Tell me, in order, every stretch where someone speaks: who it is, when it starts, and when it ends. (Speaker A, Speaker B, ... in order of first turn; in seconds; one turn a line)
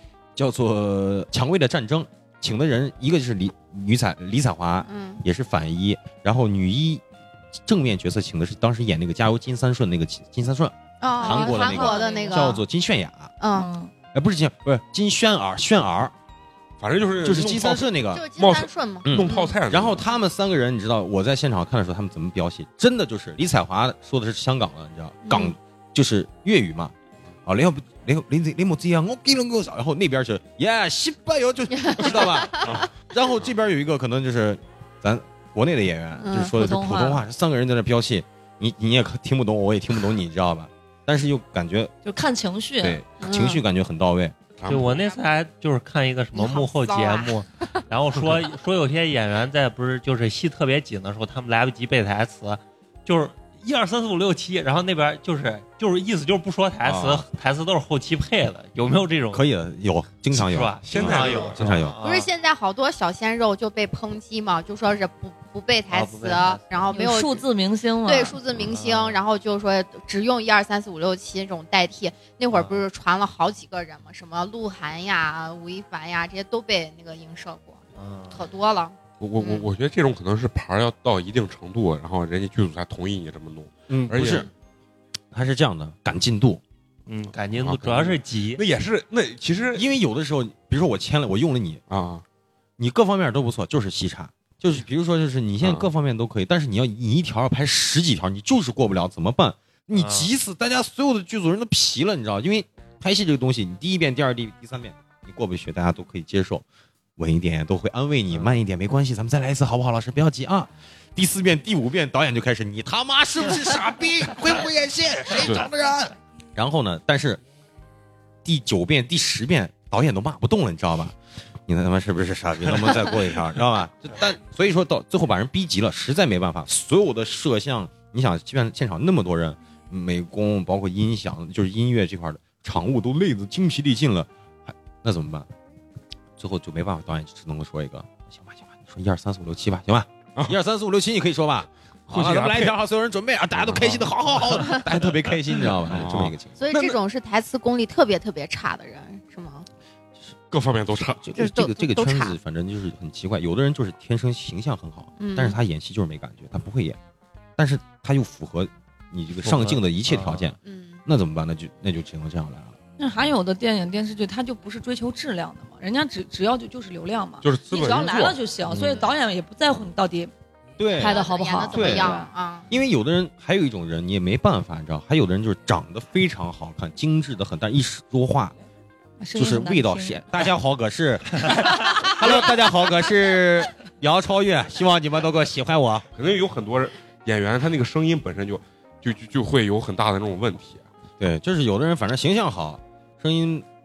Speaker A: 0.3-7.0
Speaker B: 4.8-5.2
Speaker A: 7.6-13.3
Speaker B: 11.0-12.6
Speaker C: 11.2-12.6
Speaker B: 13.4-13.7
Speaker C: 13.5-13.9
Speaker A: 14.1-16.1
Speaker D: 16.8-20.0
Speaker A: 17.2-18.3
Speaker B: 18.1-19.5
Speaker A: 19.1-26.9
Speaker B: 25.2-25.6
Speaker A: 27.5-41.9
Speaker B: 31.7-32.8
Speaker D: 32.6-32.9
Speaker B: 36.2-36.5
Speaker C: 36.5-37.2
Speaker C: 42.0-43.0
Speaker A: 42.8-44.4
Speaker B: 43.2-43.6
Speaker D: 44.6-45.1
Speaker E: 44.7-59.4
Speaker B: 46.4-47.4
Speaker A: 56.9-57.2
Speaker A: 59.3-62.0
Speaker E: 60.3-62.3
Speaker D: 60.8-61.8
Speaker B: 62.0-67.4
Speaker E: 65.9-66.6
Speaker C: 66.9-68.4
Speaker B: 68.0-79.7
Speaker E: 68.7-69.2
Speaker E: 72.5-72.8
Speaker E: 78.0-78.4
Speaker D: 79.2-84.5
Speaker A: 83.9-84.5
Speaker A: 85.3-86.6
Speaker E: 87.1-88.6
Speaker D: 87.5-89.9
Speaker A: 89.7-91.8
Speaker D: 91.9-92.2
Speaker A: 92.8-106.7
Speaker D: 95.6-95.9
Speaker E: 100.0-100.3
Speaker A: 107.2-117.4
Speaker D: 115.4-115.7
Speaker A: 118.4-121.2
Speaker A: 121.7-135.5
Speaker A: 136.4-146.6
Speaker D: 142.1-142.8
Speaker D: 143.6-144.1
Speaker B: 144.6-144.9
Speaker D: 145.8-147.0
Speaker B: 146.6-149.7
Speaker D: 150.5-151.2
Speaker A: 151.2-157.0
Speaker B: 151.3-152.4
Speaker B: 155.2-155.6
Speaker A: 157.6-162.8
Speaker E: 159.4-160.5
Speaker B: 160.6-161.0
Speaker C: 163.0-170.3
Speaker D: 167.4-168.4
Speaker E: 168.7-169.0
Speaker A: 170.8-178.6
Speaker B: 171.0-172.7
Speaker C: 171.0-172.3
Speaker C: 179.2-180.2
Speaker A: 179.3-186.1
Speaker D: 186.2-190.8
Speaker A: 191.2-193.7